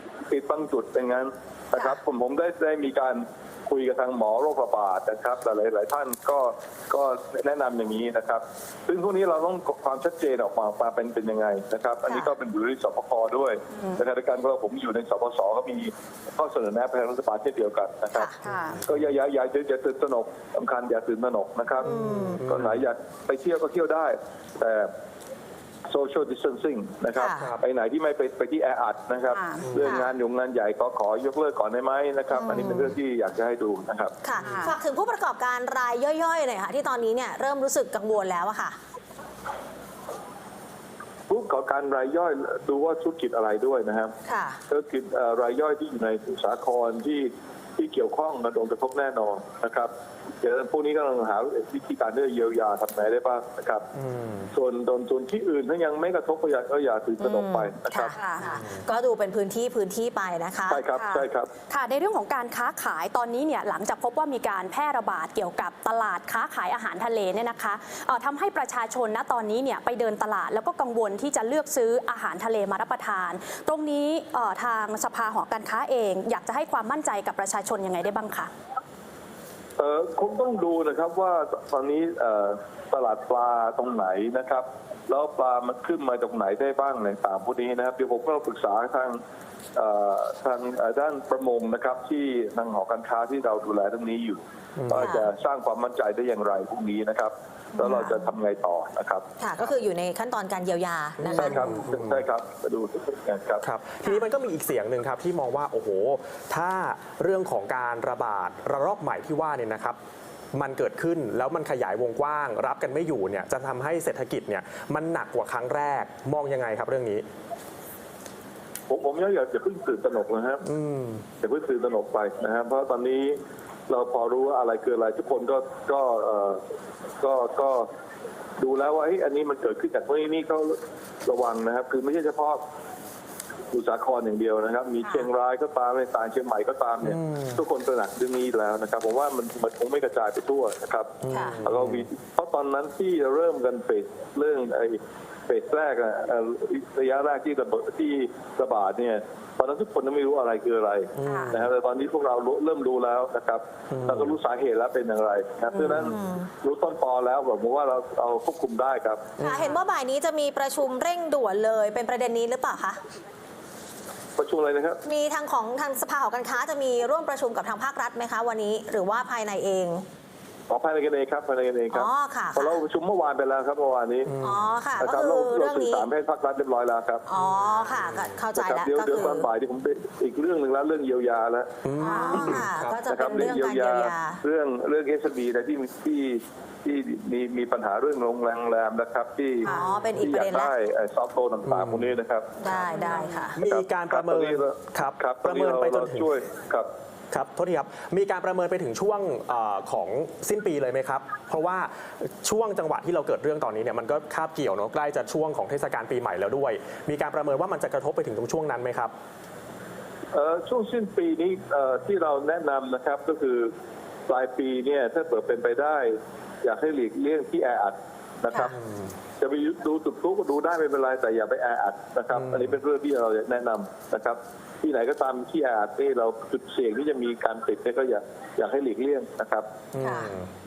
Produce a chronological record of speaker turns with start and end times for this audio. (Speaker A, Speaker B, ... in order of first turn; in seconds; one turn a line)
Speaker A: 0.3-18.3
Speaker B: 12.1-12.3
Speaker C: 18.4-18.8
Speaker D: 18.5-19.0
Speaker A: 18.9-21.9
Speaker B: 21.8-22.4
Speaker D: 21.9-22.8
Speaker A: 22.4-24.9
Speaker A: 25.9-34.1
Speaker B: 27.1-27.5
Speaker C: 29.3-29.7
Speaker B: 29.8-30.1
Speaker B: 32.3-32.9
Speaker B: 34.2-38.8
Speaker C: 34.4-34.7
Speaker A: 41.3-44.1
Speaker B: 44.3-44.6
Speaker A: 44.7-53.9
Speaker D: 54.0-54.5
Speaker A: 54.5-58.2
Speaker B: 57.2-60.8
Speaker C: 58.2-58.4
Speaker D: 58.4-58.8
Speaker A: 60.7-61.5
Speaker C: 61.0-78.5
Speaker A: 79.8-89.2
Speaker A: 89.8-99.2
Speaker D: 94.8-95.2
Speaker B: 94.9-95.3
Speaker B: 97.8-98.3
Speaker B: 99.4-101.6
Speaker D: 101.2-102.2
Speaker A: 101.3-103.6
Speaker D: 103.6-110.0
Speaker D: 110.5-117.2
Speaker A: 118.9-120.7
Speaker D: 120.7-121.2
Speaker A: 121.4-126.6
Speaker A: 127.2-127.9
Speaker A: 128.6-132.6
Speaker A: 133.7-159.3
Speaker D: 137.1-137.5
Speaker D: 141.2-142.0
Speaker B: 141.3-141.6
Speaker D: 151.2-151.7
Speaker C: 151.3-151.5
Speaker D: 153.9-154.2
Speaker B: 156.0-156.5
Speaker D: 159.4-159.7
Speaker B: 159.4-163.0
Speaker A: 164.4-165.0
Speaker B: 165.0-170.0
Speaker A: 170.7-174.3
Speaker B: 171.9-172.8
Speaker D: 174.3-174.7
Speaker B: 174.4-176.1
Speaker A: 175.0-177.2
Speaker B: 177.3-179.5
Speaker D: 177.4-178.3
Speaker A: 178.5-181.7
Speaker D: 181.8-183.0
Speaker B: 182.0-184.4
Speaker A: 182.3-196.9
Speaker B: 189.6-190.7
Speaker D: 191.7-192.1
Speaker B: 192.6-193.6
Speaker C: 192.9-193.3
Speaker D: 193.6-196.3
Speaker D: 197.3-209.1
Speaker A: 210.3-213.7
Speaker A: 214.3-218.8
Speaker A: 219.4-229.7
Speaker D: 222.4-222.6
Speaker D: 229.9-230.5
Speaker B: 230.0-230.3